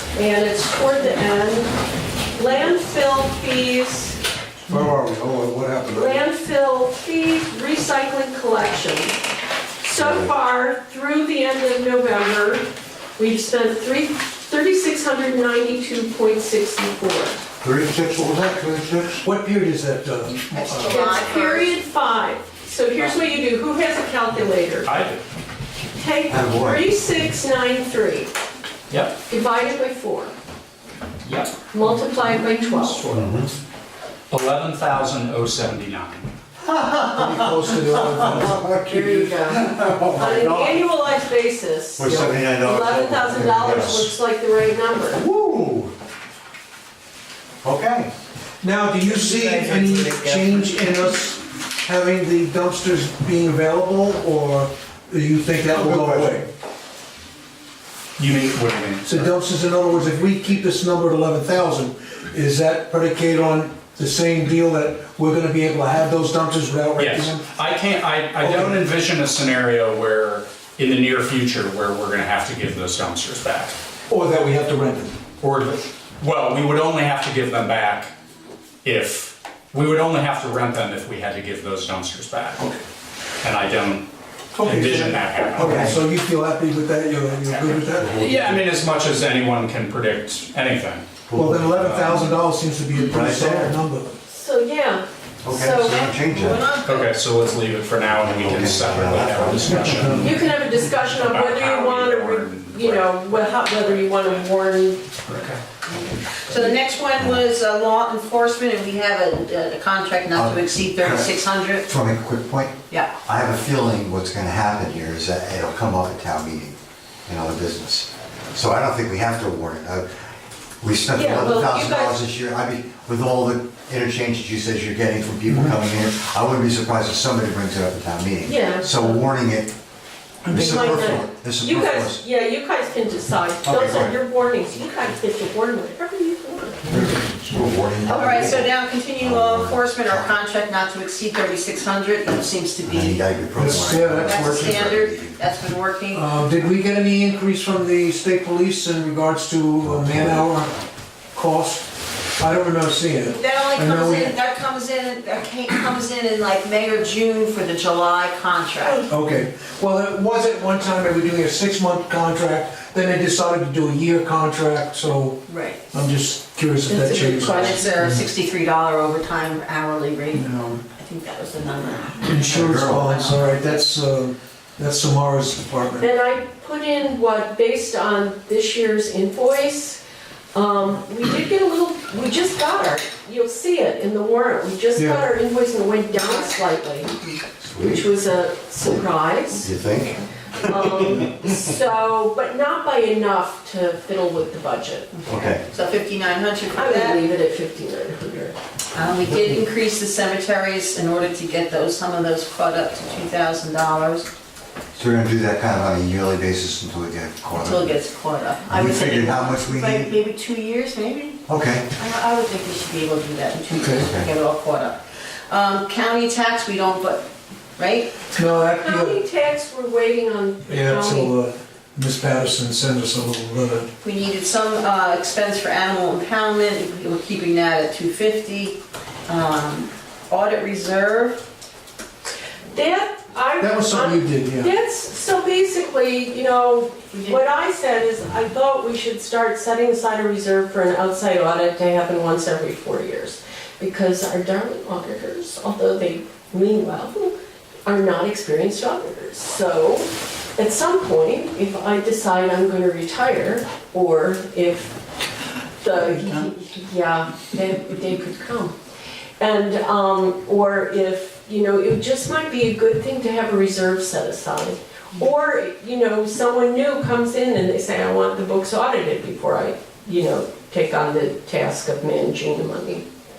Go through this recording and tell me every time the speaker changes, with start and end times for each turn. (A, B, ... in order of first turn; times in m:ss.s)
0:00.1-0:01.7 A
0:02.4-0:04.2 A
0:04.7-0:06.2 B
0:05.9-0:09.2 A
0:09.8-0:17.4 A
0:10.0-0:10.3 C
0:17.6-0:19.3 C
0:19.2-0:21.1 B
0:20.5-0:21.8 D
0:20.9-0:24.9 A
0:24.8-0:25.2 E
0:26.0-0:28.3 A
0:26.3-0:26.9 C
0:28.9-0:29.2 E
0:29.3-0:30.3 A
0:31.2-0:33.6 E
0:31.7-0:33.1 A
0:33.1-0:33.5 C
0:34.3-0:36.3 E
0:36.6-0:40.9 C
0:37.1-0:39.3 B
0:38.8-0:45.2 A
0:42.0-0:44.2 C
0:45.1-0:45.9 C
0:47.6-0:48.1 C
0:48.6-0:56.5 B
0:49.2-0:50.5 C
0:55.7-0:56.4 C
0:58.2-0:59.3 E
0:59.1-1:07.5 B
1:07.0-1:13.8 E
1:08.4-1:08.9 B
1:14.1-1:15.3 B
1:15.4-1:18.1 E
1:18.8-1:22.7 E
1:23.4-1:24.1 E
1:24.6-1:25.9 E
1:24.6-1:28.2 B
1:25.6-1:26.0 C
1:28.0-1:28.6 C
1:28.1-1:31.1 E
1:31.3-1:32.3 C
1:31.4-1:34.2 B
1:31.8-1:32.2 E
1:33.0-1:33.8 C
1:34.3-1:36.1 A
1:35.4-1:36.7 C
1:35.8-1:37.3 D
1:36.8-1:44.2 E
1:38.0-1:40.2 C
1:39.6-1:40.4 B
1:40.2-1:45.2 A
1:45.2-1:45.6 E
1:46.4-1:51.9 D
1:50.3-1:51.3 C
1:51.8-2:00.1 C
2:00.8-2:09.7 C
2:01.1-2:02.2 A
2:08.4-2:09.2 A
2:10.4-2:12.2 C
2:10.5-2:16.8 A
2:10.5-2:10.9 B
2:13.6-2:14.2 C
2:16.9-2:20.4 C
2:18.1-2:23.4 D
2:22.9-2:25.4 C
2:23.6-2:24.8 B
2:24.2-2:26.3 D
2:26.1-2:30.8 B
2:31.3-2:34.4 B
2:33.2-2:39.1 D
2:39.1-2:48.1 B
2:45.5-2:46.0 D
2:46.9-2:47.9 A
2:47.1-2:53.8 D
2:50.3-2:50.8 B
2:52.3-2:56.1 B
2:52.4-2:53.2 C
2:56.0-3:00.0 A
3:00.5-3:07.1 A
3:05.0-3:05.3 B
3:07.6-3:08.1 C
3:07.8-3:09.7 A
3:09.6-3:11.5 C
3:10.6-3:15.1 A
3:15.1-3:17.2 D
3:15.3-3:15.6 C
3:16.7-3:18.6 A
3:18.9-3:24.3 D
3:19.2-3:19.6 C
3:25.0-3:28.0 C
3:27.5-3:31.4 D
3:28.7-3:30.2 C
3:31.5-3:31.9 C
3:32.0-3:38.2 D
3:33.7-3:34.1 B
3:34.0-3:34.3 C
3:38.3-3:39.2 B
3:38.7-3:41.3 A
3:40.7-3:43.9 B
3:44.0-3:51.4 D
3:52.7-4:07.3 A
3:53.6-3:54.7 B
3:57.1-3:57.4 D
4:07.9-4:15.0 A
4:15.8-4:18.8 A
4:19.4-4:33.0 A